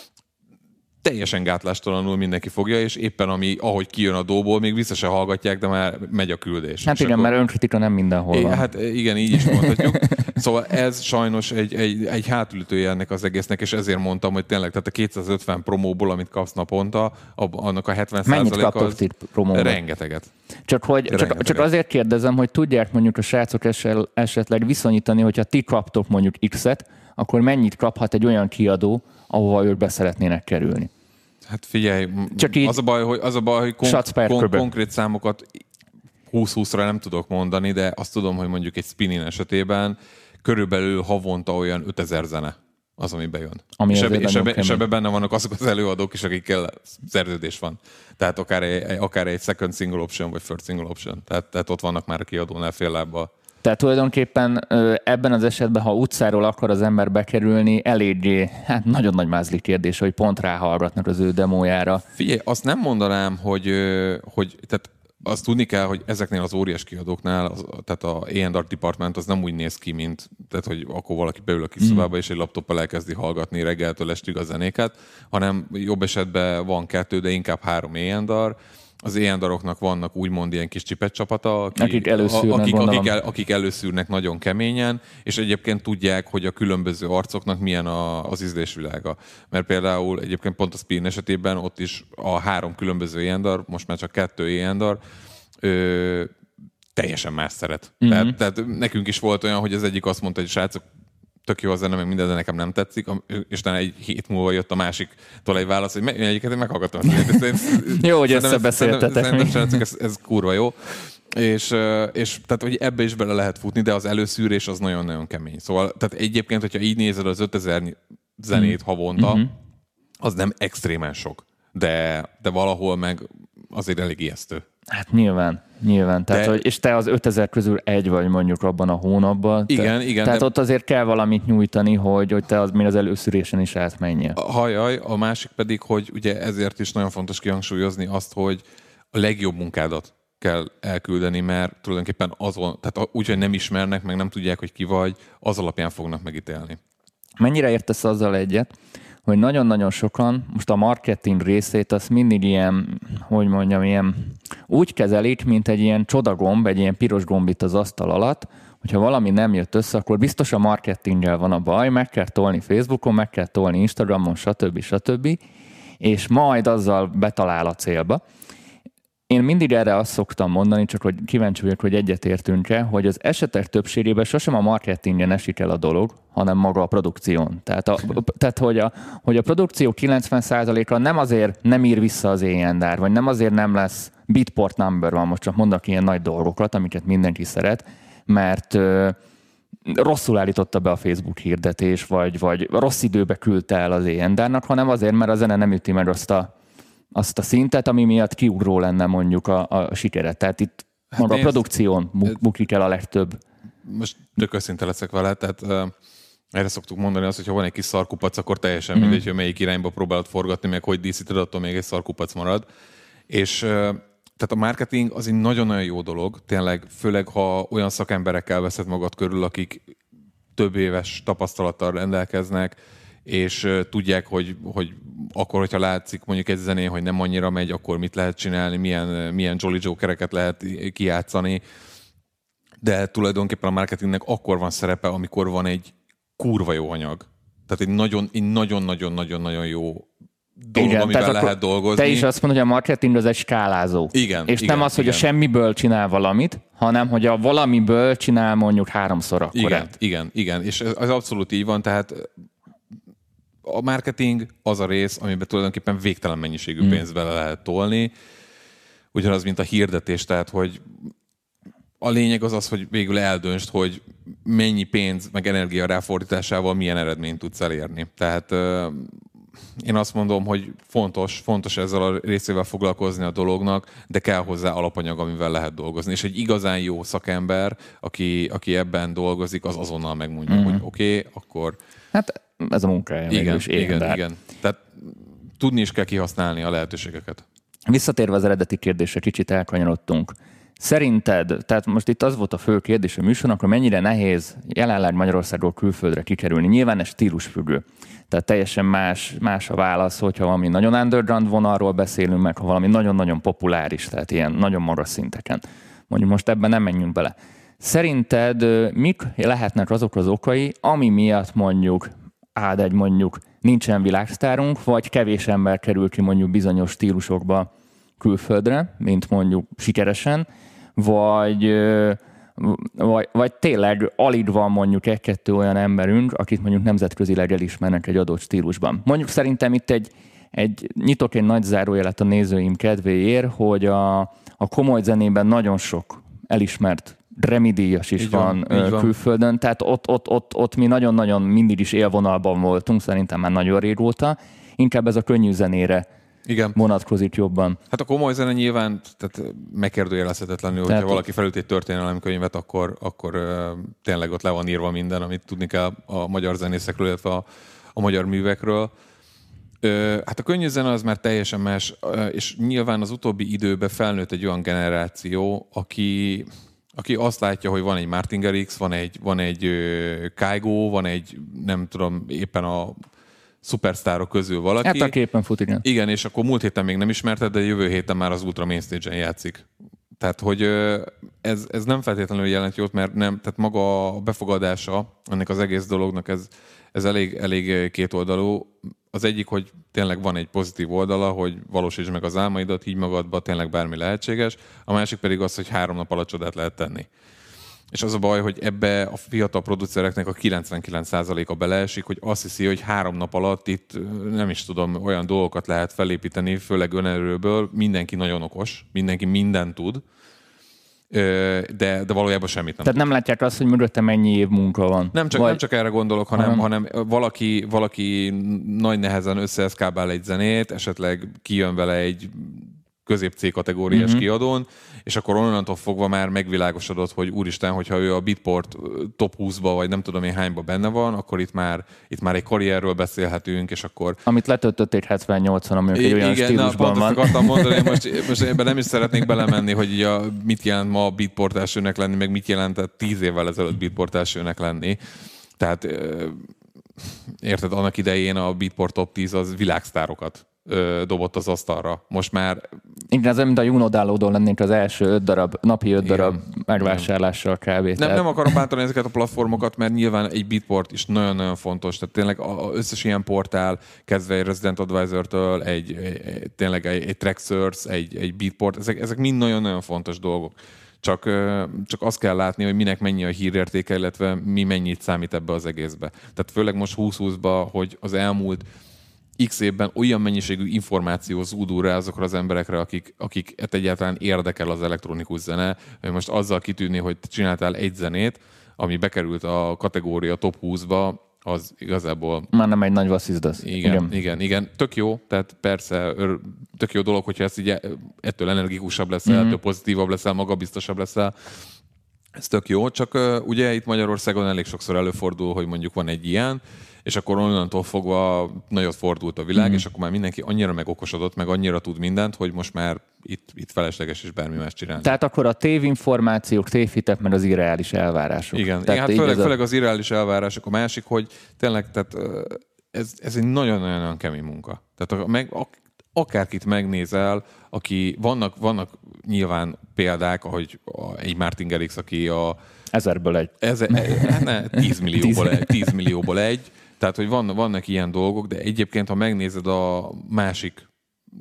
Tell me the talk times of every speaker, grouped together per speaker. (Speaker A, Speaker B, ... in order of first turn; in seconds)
Speaker A: 1.0-7.3, 8.3-19.0, 19.5-20.3, 21.1-21.7, 31.5-35.6, 36.3-53.3, 62.1-95.0, 95.6-96.3, 97.0-100.8, 101.4-119.4, 120.2-124.6, 126.3-126.6, 129.7-130.5, 134.3-146.8, 201.1-201.6, 203.8-205.9, 206.5-212.6, 213.3-219.8, 220.5-231.6, 232.8-240.1, 240.6-242.3, 244.1-245.3, 249.5-252.3, 253.6-258.1, 259.1-260.9, 262.0-269.2, 269.8-281.8, 283.3-287.4, 338.2-339.1, 346.4-346.8, 347.9-358.9, 359.8-373.0, 373.6-375.1, 375.8-379.6, 380.2-397.1, 397.9-410.0, 411.1-412.9, 415.1-434.2, 435.9-445.0, 445.6-452.6, 456.0-457.1, 458.0-478.6, 479.4-492.5, 493.6-501.6, 502.4-515.1, 518.5-532.6, 533.6-540.9
Speaker B: 6.8-8.6, 9.4-9.8, 18.2-19.8, 20.7-30.9, 32.4-32.8, 33.8-34.6, 43.8-44.8, 53.6-62.0, 81.8-83.1, 98.0-98.3, 107.2-109.8, 118.5-119.5, 124.9-134.4, 147.4-148.7, 149.2-165.4, 166.0-168.2, 169.3-189.2, 189.9-196.5, 197.1-203.4, 208.9-209.2, 240.7-249.9, 280.5-280.8, 282.1-284.2, 287.9-346.1, 346.7-347.8, 350.9-351.2, 374.8-375.8, 412.8-415.6, 416.4-416.6, 423.9-424.2, 434.2-438.0, 453.1-458.5, 492.5-494.1, 499.2-499.6, 509.6-509.8, 515.0-519.5, 532.9-536.0